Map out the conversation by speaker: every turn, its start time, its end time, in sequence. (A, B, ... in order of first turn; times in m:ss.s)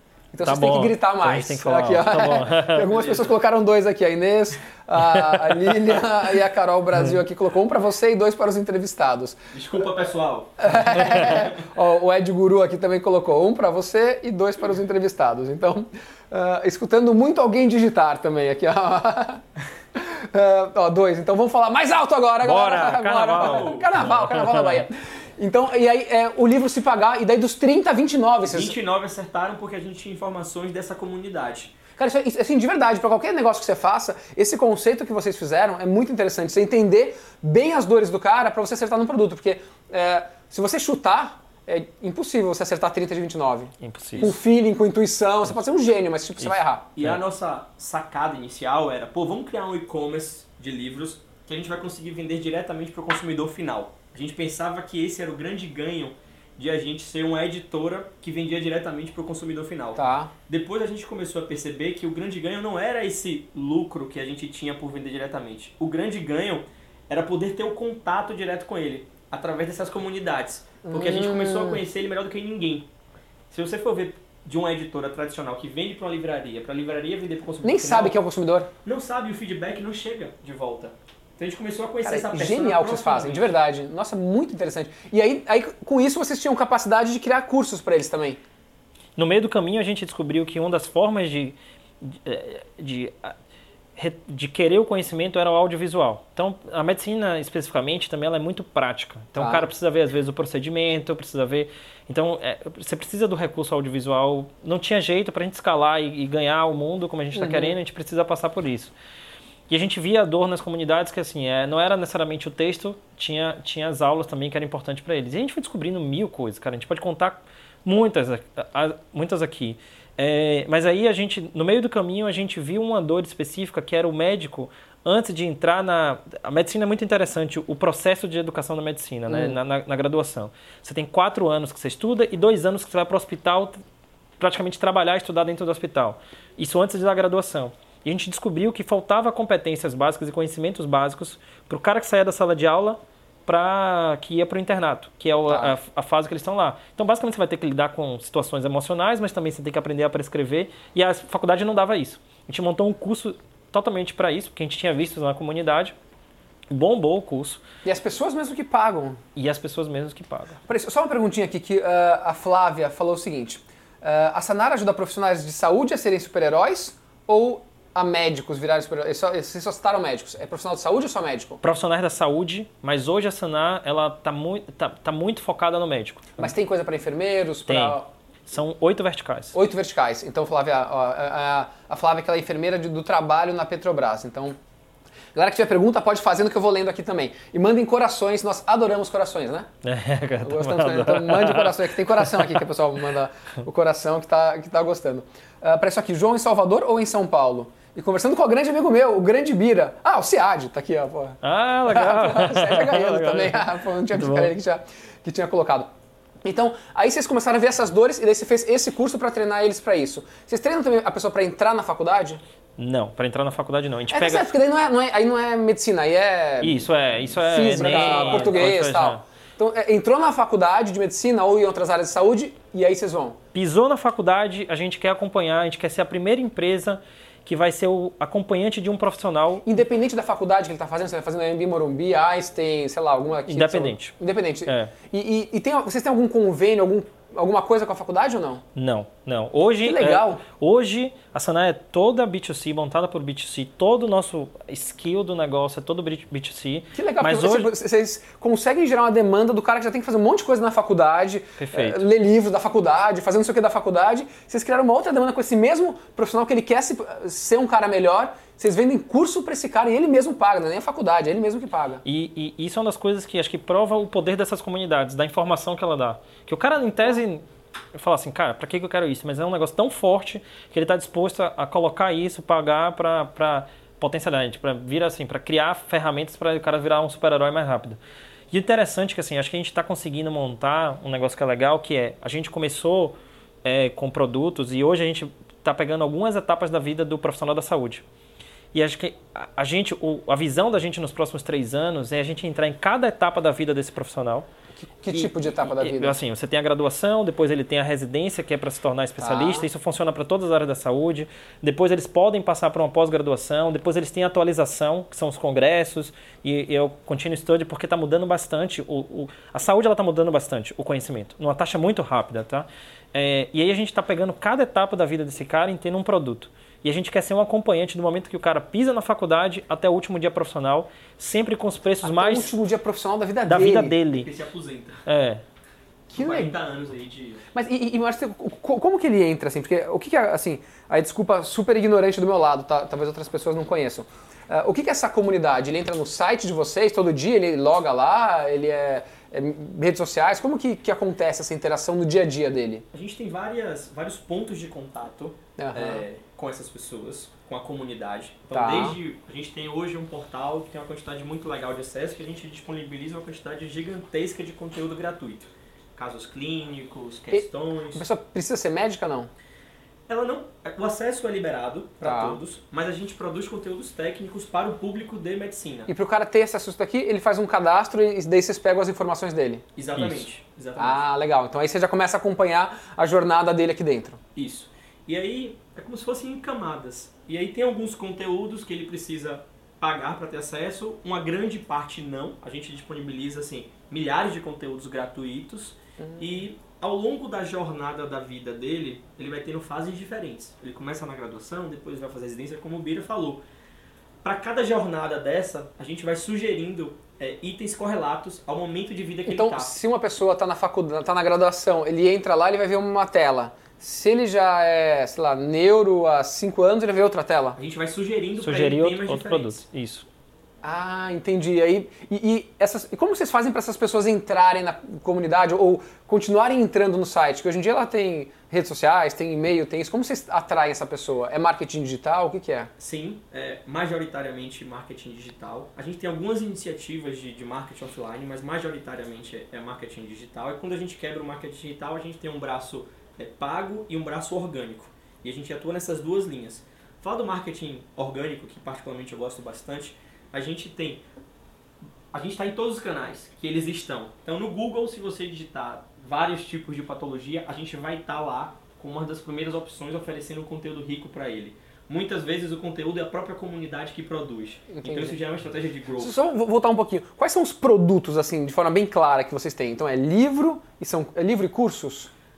0:00.3-0:09.4 A
0:00.4-0:02.9 B
0:02.9-0:03.4 C
0:05.0-0:06.1 B
0:09.5-0:11.6 C
0:10.6-0:19.4 A
0:20.0-0:28.7 A
0:22.4-0:24.9 B
0:23.3-0:24.0 C
0:28.4-0:31.7 C
0:32.0-0:46.9 A
0:43.8-0:44.4 B
0:46.4-0:47.2 B
0:47.0-1:12.9 C
1:00.0-1:00.3 A
1:10.8-1:11.8 A
1:13.5-1:18.2 C
1:17.6-1:18.7 A
1:18.8-1:23.5 C
1:22.0-1:28.4 A
1:29.2-1:33.4 B
1:34.0-1:48.9 B
1:39.4-1:39.7 A
1:47.4-1:47.8 A
1:49.7-2:13.8 B
2:09.3-2:09.6 A
2:14.4-2:36.0 B
2:25.5-2:25.8 A
2:36.7-2:37.6 B
2:37.8-2:39.2 A
2:39.4-2:40.6 B
2:40.7-2:51.6 A
2:51.6-2:56.5 B
2:56.4-2:58.1 A
2:57.7-2:59.6 B
2:59.5-3:04.6 A
3:05.4-3:09.7 A
3:09.8-3:12.6 B
3:10.4-3:25.9 A
3:21.4-3:24.5 B
3:26.4-3:32.4 A
3:32.8-3:34.5 B
3:34.1-3:43.4 A
3:36.6-3:39.2 B
3:37.8-3:38.5 C
3:43.5-3:49.7 B
3:49.6-3:58.6 A
3:53.5-3:54.1 B
3:54.7-3:54.9 B
3:58.8-4:07.7 B
3:59.7-4:00.4 A
4:06.9-4:22.0 A
4:11.6-4:12.1 B
4:22.0-4:38.0 B
4:38.5-4:48.0 B
4:48.7-4:54.5 B
4:54.8-4:56.2 A
4:55.1-5:22.5 B
4:59.2-4:59.7 A
5:22.0-5:24.0 A
5:23.4-5:24.3 B
5:24.1-5:25.0 C
5:25.0-5:25.4 B
5:26.1-5:26.5 A
5:26.1-5:27.4 C
5:27.5-5:42.8 A
5:42.9-5:58.0 C
5:45.6-5:46.0 A
5:48.5-5:49.0 A
5:57.3-5:59.3 A
6:00.1-6:05.9 C
6:02.0-6:02.4 A
6:05.9-6:09.6 A
6:09.8-6:11.0 C
6:10.0-6:10.2 B
6:10.8-6:14.2 A
6:14.4-6:33.4 C
6:26.0-6:26.5 A
6:34.2-6:39.7 C
6:39.2-6:47.6 A
6:47.6-6:49.6 C
6:48.4-6:50.1 B
6:50.6-7:02.7 A
7:02.8-7:21.0 C
7:22.1-7:36.2 C
7:34.7-7:35.2 A
7:36.0-7:42.1 A